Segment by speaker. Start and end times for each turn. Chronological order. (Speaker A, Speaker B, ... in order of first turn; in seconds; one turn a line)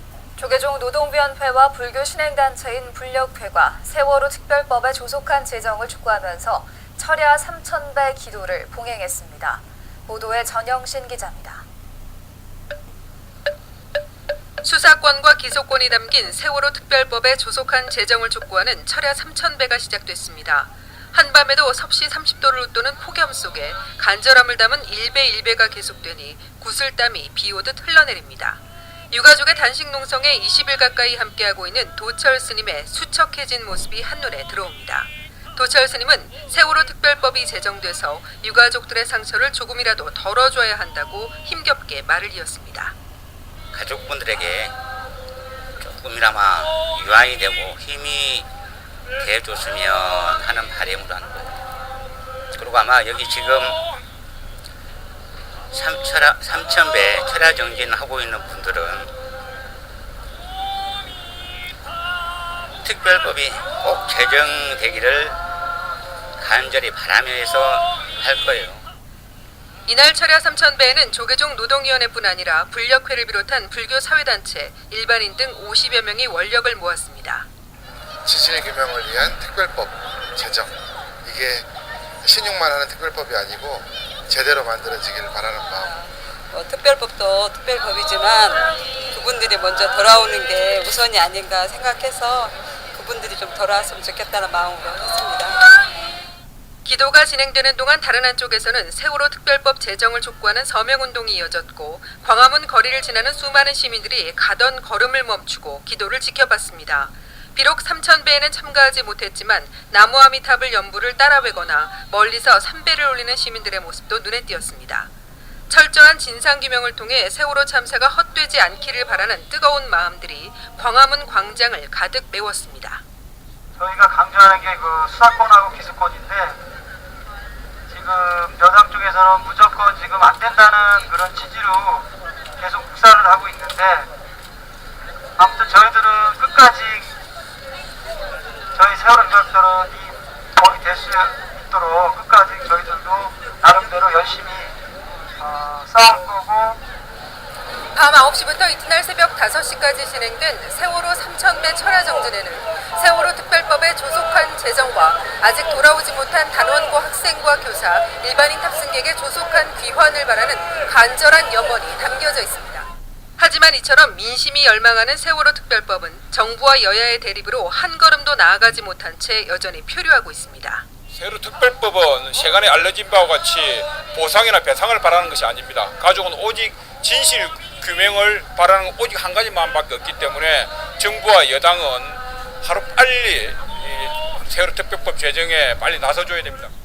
Speaker A: 0.4-11.6
Speaker B: 14.6-43.0
Speaker C: 43.7-44.8
Speaker C: 45.8-48.5
Speaker C: 49.2-51.5
Speaker C: 52.6-53.8
Speaker C: 55.7-59.1
Speaker C: 62.8-65.4
Speaker C: 66.4-68.8
Speaker B: 69.9-77.5
Speaker D: 78.2-80.7
Speaker D: 81.2-81.7
Speaker D: 82.2-85.9
Speaker E: 85.9-95.7
Speaker B: 96.8-115.1
Speaker B: 115.7-123.0
Speaker F: 123.8-126.6
Speaker F: 127.9-132.1
Speaker F: 132.6-134.1
Speaker F: 135.4-137.1
Speaker F: 138.8-144.8
Speaker F: 145.4-146.8
Speaker B: 147.9-170.8
Speaker G: 171.1-186.7